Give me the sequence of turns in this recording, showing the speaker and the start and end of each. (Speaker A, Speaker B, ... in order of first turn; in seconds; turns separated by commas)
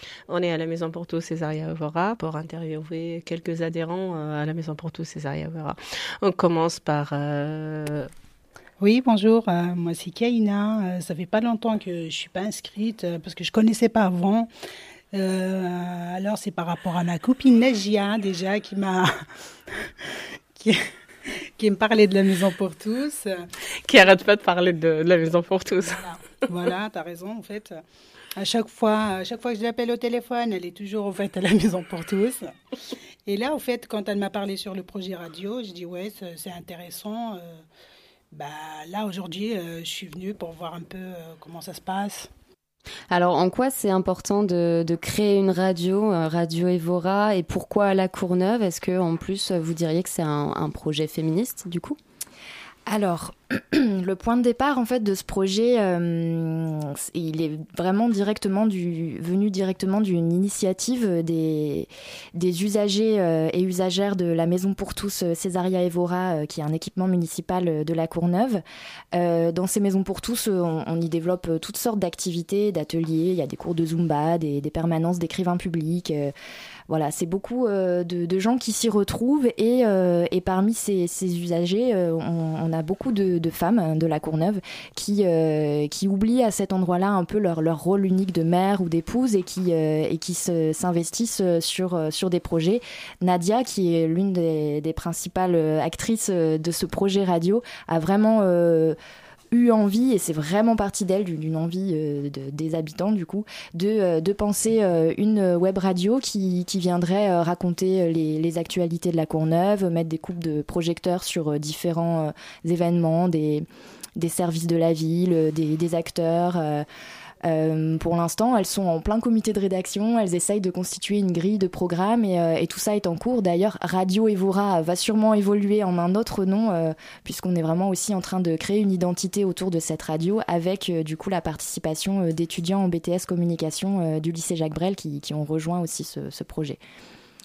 Speaker A: 0.3-8.1, Speaker B: 8.8-14.5, Speaker B: 15.1-19.1, Speaker B: 20.6-20.8, Speaker B: 21.6-23.5, Speaker A: 23.8-26.1, Speaker B: 26.5-27.8, Speaker B: 28.4-32.5, Speaker B: 33.3-37.6, Speaker B: 38.3-42.3, Speaker C: 43.1-52.0, Speaker D: 52.9-68.6, Speaker D: 69.1-76.3, Speaker D: 76.9-99.0, Speaker D: 99.5-113.7, Speaker D: 114.2-116.9, Speaker D: 117.4-136.8